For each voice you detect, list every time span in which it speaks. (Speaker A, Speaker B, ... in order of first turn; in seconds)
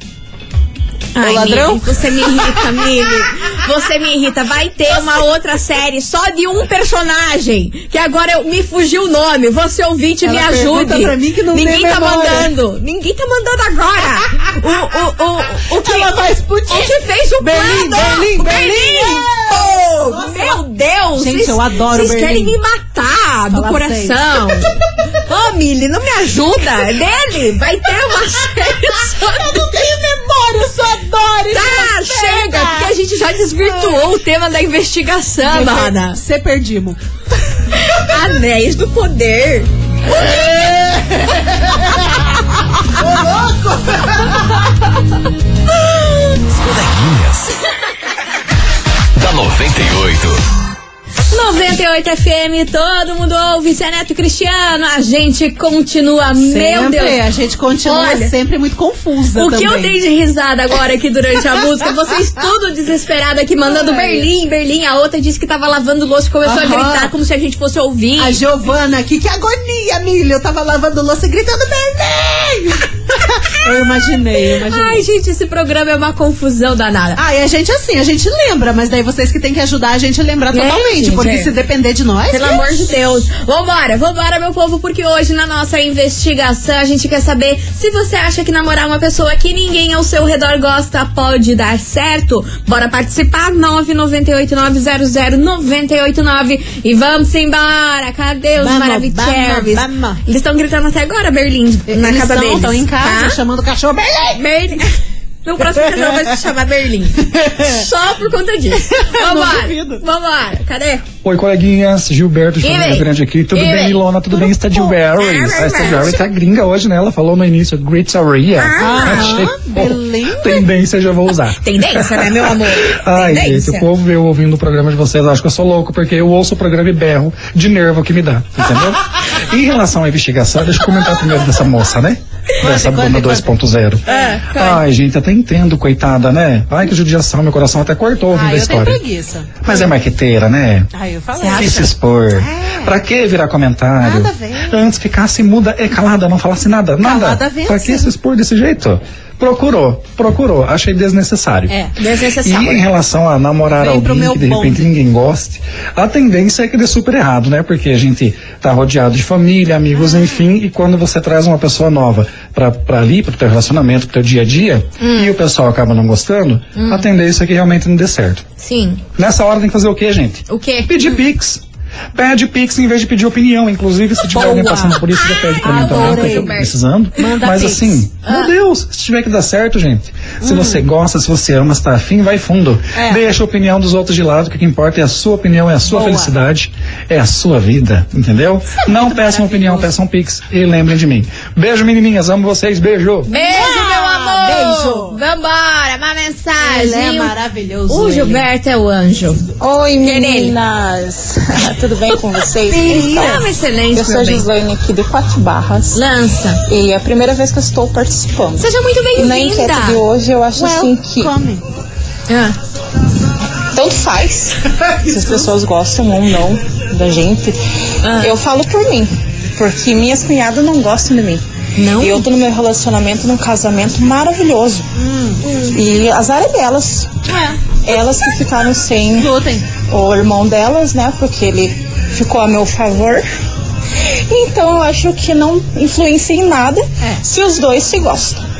Speaker A: 1.1-29.6, 31.5-36.2, 37.7-39.7, 51.3-57.2, 57.8-58.3, 59.4-68.4, 74.6-77.2, 80.5-81.5, 82.3-103.4, 104.3-111.0, 112.6-116.2, 118.5-119.5, 121.6-123.9, 134.1-134.8, 141.4-141.8, 152.0-152.8, 165.0-165.3, 166.7-167.1, 168.6-169.0, 170.5-170.9, 174.4-176.7, 193.3-197.3, 197.9-199.5, 200.0-200.5, 202.7-204.4, 205.9-206.6, 208.6-210.0, 212.3-212.5, 218.0-218.3, 221.8-222.2, 225.4-225.8
Speaker B: 1.2-3.2, 10.2-12.5, 15.7-20.6, 21.2-22.5, 23.5-24.8, 28.7-32.9, 33.5-34.0, 35.4-37.0, 40.1-42.2, 42.9-44.3, 56.4-59.9, 63.6-64.3, 66.4-67.1, 68.2-75.0, 77.2-83.0, 98.6-100.2, 101.9-104.4, 105.7-106.2, 107.2-107.8, 108.9-110.0, 118.8-120.6, 132.6-133.5, 134.1-134.4, 138.3-139.9, 140.9-142.9, 144.0-144.8, 147.0-148.1, 153.7-154.9, 174.3-176.5, 177.2-178.1, 180.4-180.8, 182.9-183.2, 185.9-186.3, 188.8-189.9, 193.3-195.2, 196.6-198.4, 202.7-203.5, 210.6-211.6, 225.0-225.4, 227.3-227.6, 229.2-229.7
Speaker C: 45.8-47.5, 49.1-50.4
Speaker D: 111.2-139.0, 139.6-140.9, 141.5-151.7, 152.4-168.4, 169.2-171.6, 172.1-193.3
Speaker E: 199.6-206.0, 206.7-211.3, 213.7-217.6, 218.2-221.4, 222.0-224.8, 225.7-227.1, 227.8-229.3, 229.9-233.2, 234.3-238.4